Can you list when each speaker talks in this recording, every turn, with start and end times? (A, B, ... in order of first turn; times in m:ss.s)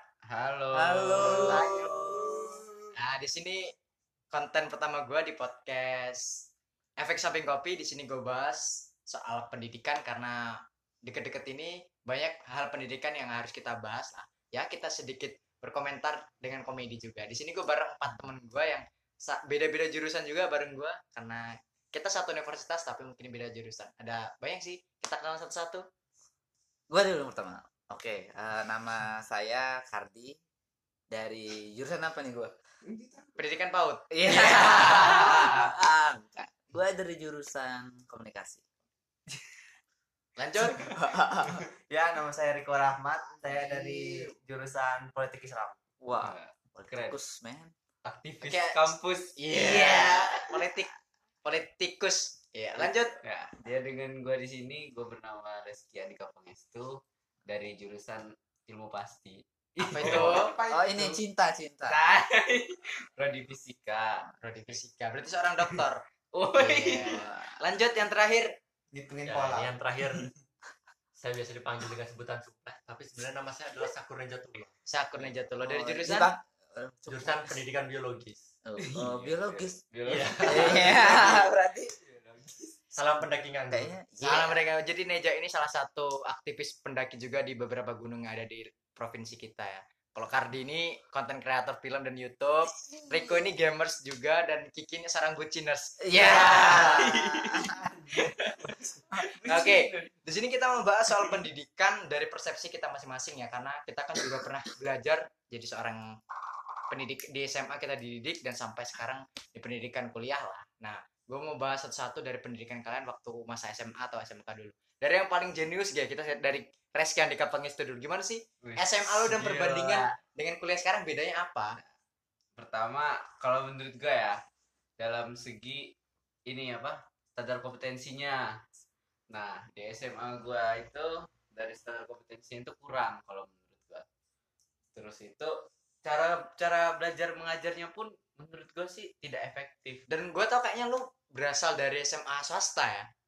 0:00.2-0:01.6 A
0:00.7-0:02.6 B
0:01.3-0:02.5 C
0:03.0-0:03.7 D
0:04.3-0:06.4 D
0:07.0-0:10.4 D
0:11.0-0:25.8 D
0:26.9-0:30.4 B
0:31.1-0:32.5 B
0:32.9-0:33.3 C
0:33.4-0:35.5 D
0:34.1-0:38.6 B
0:40.4-0:40.9 D
0:40.8-0:41.6 B
0:41.9-0:45.8 C
0:43.5-0:44.2 A
0:46.0-0:47.7 B
0:46.2-0:47.2 A
0:48.0-0:50.6 A
0:48.4-0:50.9 D
0:51.4-0:53.2 D
0:52.6-1:00.5 A
0:59.8-1:00.5 D
1:00.2-1:01.1 C
1:00.7-1:02.0 B
1:01.8-1:04.3 A
1:04.4-1:06.0 D
1:06.3-1:07.4 A
1:06.5-1:08.5 D
1:08.9-1:09.8 C
1:09.2-1:10.3 E
1:11.2-1:14.7 E
1:14.9-1:16.3 D
1:15.6-1:17.5 B
1:17.1-1:18.5 E
1:18.6-1:19.8 B
1:18.8-1:21.5 A
1:20.1-1:21.4 E
1:20.5-1:21.9 B
1:22.0-1:22.7 A
1:22.9-1:23.9 E
1:23.7-1:24.6 B
1:24.2-1:37.0 D
1:36.0-1:38.2 B
1:36.2-1:40.1 A
1:39.4-1:46.0 D
1:46.9-2:01.8 D
1:58.6-2:00.1 A
2:02.6-2:04.4 A
2:05.0-2:05.9 A
2:06.5-2:08.4 A
2:09.3-2:14.0 A
2:14.9-2:20.0 A
2:20.1-2:23.1 D